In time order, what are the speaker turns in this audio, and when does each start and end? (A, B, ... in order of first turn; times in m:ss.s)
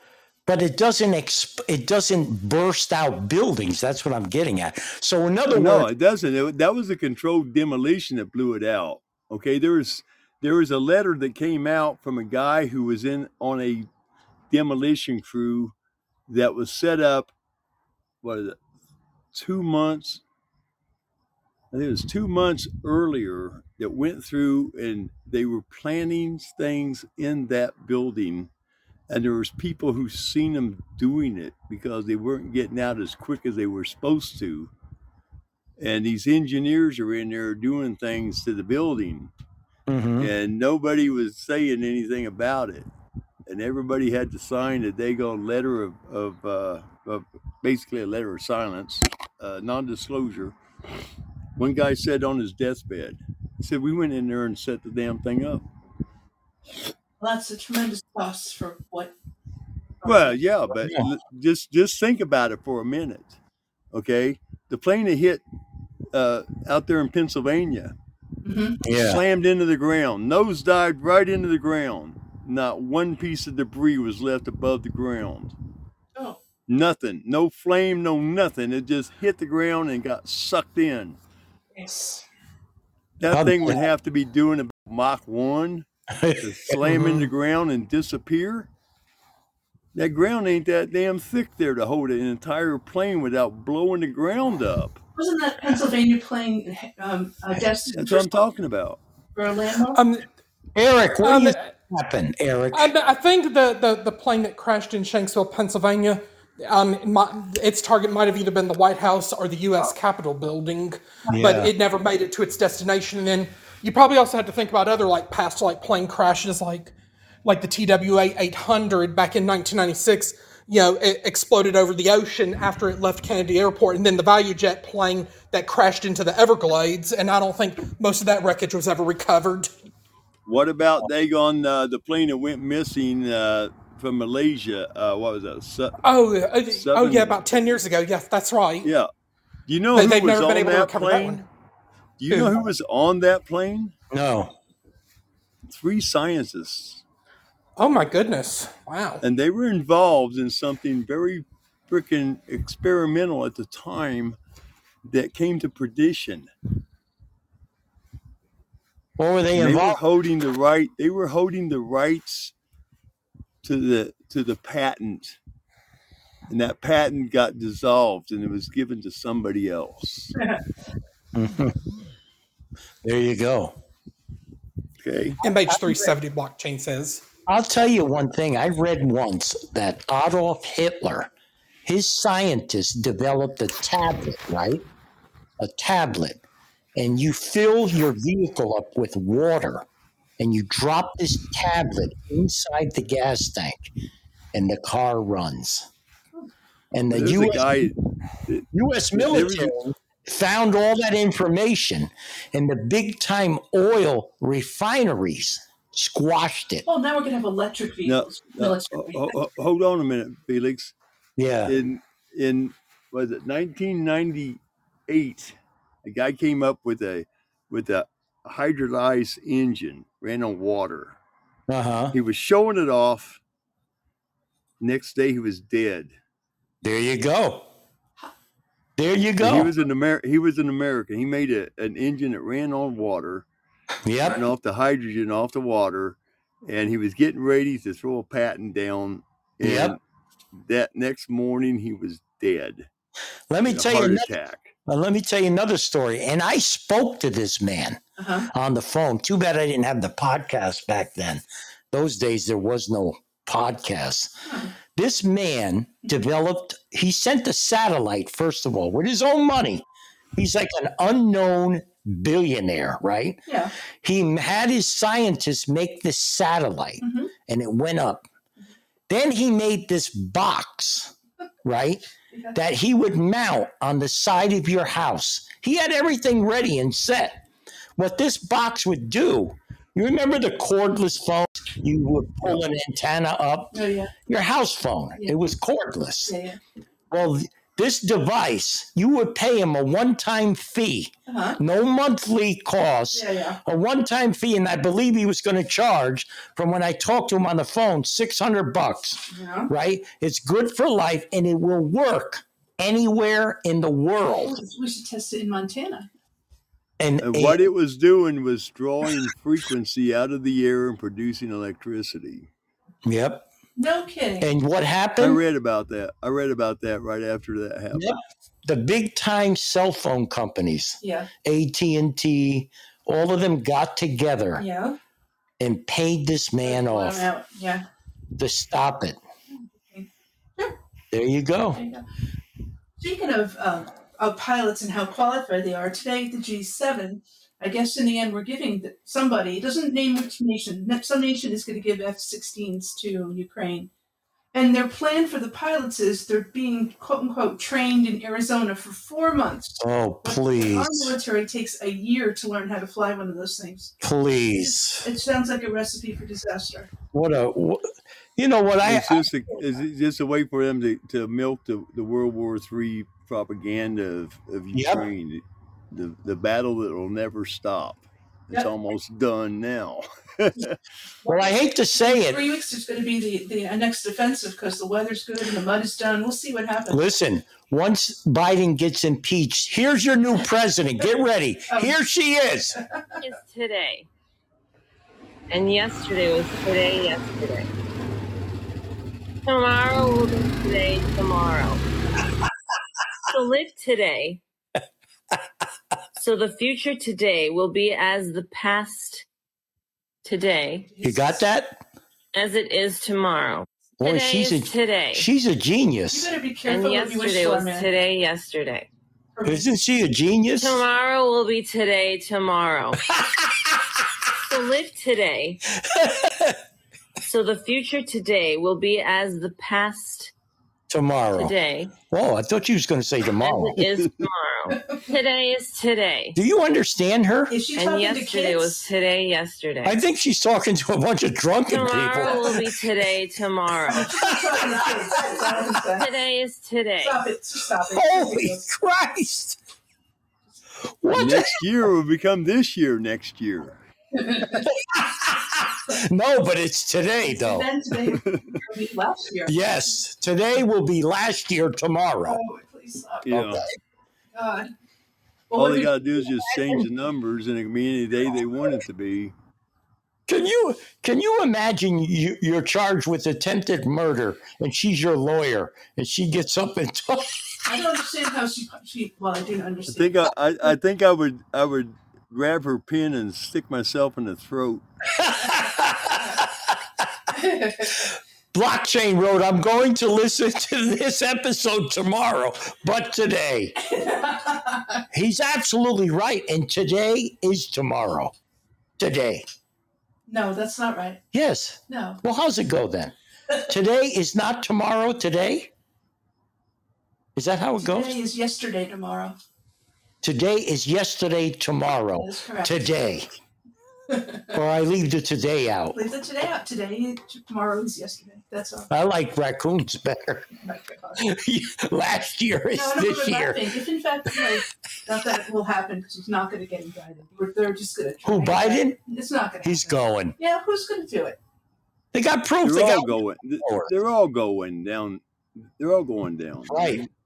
0:00.4-0:05.9 A
0:05.5-0:13.9 B
0:14.5-0:15.7 B
0:16.3-0:17.3 B
0:18.2-0:18.6 B
0:19.3-0:20.2 B
0:21.7-0:28.5 B
0:29.1-0:34.7 B
0:35.8-0:39.3 B
0:39.9-0:40.3 A
0:40.2-0:42.9 B
0:43.5-0:50.6 B
0:51.6-0:55.6 B
0:57.2-0:59.1 C
1:00.0-1:00.3 C
1:00.0-1:03.4 B
1:00.8-1:01.1 A
1:03.9-1:05.4 B
1:06.1-1:07.9 B
1:08.4-1:08.8 C
1:08.8-1:09.2 A
1:08.9-1:15.5 B
1:16.7-1:21.2 B
1:21.7-1:22.2 C
1:23.2-1:25.8 B
1:23.3-1:23.8 A
1:26.1-1:27.3 A
1:26.4-1:28.7 B
1:29.9-1:35.0 B
1:35.2-1:38.4 C
1:37.9-1:39.0 B
1:39.3-1:40.0 C
1:39.9-1:40.2 D
1:40.7-1:42.9 A
1:41.2-1:41.7 D
1:42.7-2:09.7 D
1:51.2-1:51.7 A
2:10.4-2:16.0 B
2:16.0-2:18.9 D
2:16.7-2:17.4 B
2:18.8-2:19.1 B
2:19.7-2:21.4 B
2:19.9-2:21.4 D
2:22.2-2:23.9 B
2:24.1-2:24.5 A
2:25.6-2:27.0 B
2:27.8-2:29.2 D
2:29.2-2:34.4 B
2:35.0-2:36.4 B
2:39.2-2:40.0 A
2:39.5-2:42.5 B
2:43.6-2:45.4 B
2:46.5-2:50.4 B
2:51.3-2:51.7 A
2:53.0-2:53.7 A
2:55.0-2:55.4 B
2:55.4-2:57.2 D
2:55.7-2:56.1 A
2:57.5-3:01.3 A
3:01.8-3:04.8 A
3:05.6-3:06.4 A
3:07.0-3:09.8 A
3:10.4-3:13.9 A
3:14.5-3:15.9 A
3:16.9-3:17.9 A
3:17.1-3:19.7 B
3:18.7-3:26.8 A
3:26.8-3:29.4 C
3:28.0-3:30.9 B
3:31.4-3:31.7 A
3:31.6-3:41.2 B
3:41.7-3:42.1 A
3:42.1-3:43.4 B
3:44.8-3:46.1 B
3:46.8-3:47.6 A
3:49.0-3:49.7 A
3:49.4-3:53.4 B
3:54.0-3:54.4 A
3:54.2-4:00.0 B
3:59.6-4:00.0 A
4:00.5-4:02.9 B
4:03.5-4:04.3 A
4:03.6-4:04.7 B
4:04.8-4:08.0 A
4:08.2-4:08.5 C
4:08.5-4:14.4 A
4:14.4-4:14.7 C
4:14.9-4:19.8 A
4:20.4-4:23.4 A
4:23.5-4:23.7 C
4:24.0-4:28.2 A
4:27.0-4:27.3 C
4:29.1-4:31.1 A
4:31.6-4:32.0 A
4:32.5-4:37.4 A
4:38.0-4:43.7 A
4:43.7-4:44.1 C
4:44.2-4:46.3 A
4:46.2-4:46.6 C
4:47.1-5:04.6 A
4:51.3-4:51.6 C
4:53.1-4:53.6 C
4:59.3-4:59.7 C
5:04.4-5:06.1 C
5:07.0-5:07.6 A
5:07.2-5:12.5 B
5:13.0-5:13.4 A
5:13.8-5:14.5 C
5:14.4-5:15.4 A
5:15.2-5:18.1 B
5:17.9-5:24.6 A
5:21.0-5:21.3 C
5:24.6-5:25.0 C
5:25.6-5:27.2 A
5:26.6-5:27.8 C
5:28.4-5:29.2 A
5:29.5-5:30.7 C
5:31.1-5:31.8 A
5:31.7-5:32.0 C
5:33.0-5:43.9 C
5:44.5-5:53.9 C
5:49.8-5:51.2 A
5:54.0-5:55.1 A
5:54.6-5:56.9 C
5:57.1-5:59.3 A
5:58.8-6:10.7 B
6:04.7-6:05.1 A
6:11.2-6:17.0 C
6:11.3-6:12.5 A
6:16.9-6:22.8 A
6:21.7-6:21.9 C
6:23.2-6:24.1 E
6:25.5-6:27.7 E
6:29.4-6:31.8 E
6:33.3-6:34.4 E
6:36.2-6:39.2 E
6:40.2-6:40.9 E
6:40.9-6:41.4 C
6:41.0-6:41.8 A
6:42.3-6:45.3 E
6:44.0-6:46.3 A
6:46.1-6:47.9 C
6:46.6-6:48.9 E
6:49.4-6:49.7 C
6:49.4-6:50.8 A
6:50.6-6:53.1 E
6:53.2-6:53.7 A
6:54.4-6:55.6 E
6:55.8-6:56.6 A
6:57.2-7:00.3 E
7:00.9-7:01.6 A
7:01.3-7:01.9 E
7:02.1-7:03.8 A
7:03.3-7:06.4 E
7:03.8-7:04.2 B
7:06.3-7:07.5 A
7:07.5-7:08.9 C
7:07.7-7:10.0 E
7:09.8-7:12.7 A
7:11.7-7:14.3 E
7:12.2-7:12.5 C
7:13.9-7:16.1 C
7:13.9-7:15.7 A
7:16.0-7:17.2 E
7:17.0-7:18.6 C
7:17.9-7:19.6 A
7:21.0-7:21.6 A
7:21.1-7:23.8 B
7:24.1-7:24.7 C
7:24.6-7:27.7 A
7:27.2-7:29.9 C
7:28.1-7:28.5 B
7:29.4-7:32.4 A
7:32.2-7:33.3 C
7:33.2-7:33.6 B
7:33.3-7:33.8 A
7:34.3-7:34.7 C
7:35.5-7:35.9 C
7:35.6-7:39.3 B
7:36.2-7:36.9 A
7:40.3-7:47.4 A
7:47.6-7:50.1 C
7:49.9-7:54.8 B
7:55.2-7:56.7 A
7:57.3-7:58.1 C
7:58.5-8:03.8 A
8:03.8-8:05.0 C
8:05.1-8:08.3 A
8:09.0-8:09.4 A
8:10.3-8:11.2 C
8:11.3-8:15.7 A
8:11.9-8:12.2 C
8:17.4-8:18.2 A
8:17.8-8:19.4 C
8:20.2-8:23.3 A
8:22.2-8:22.9 C
8:24.1-8:24.5 C
8:24.5-8:26.0 A
8:25.9-8:28.9 C
8:28.9-8:30.5 A
8:30.6-8:31.2 C
8:31.2-8:33.8 A
8:32.7-8:41.4 C
8:38.2-8:39.0 A
8:39.6-8:40.4 A
8:42.1-8:43.9 A
8:42.6-8:47.1 B
8:46.6-8:47.0 A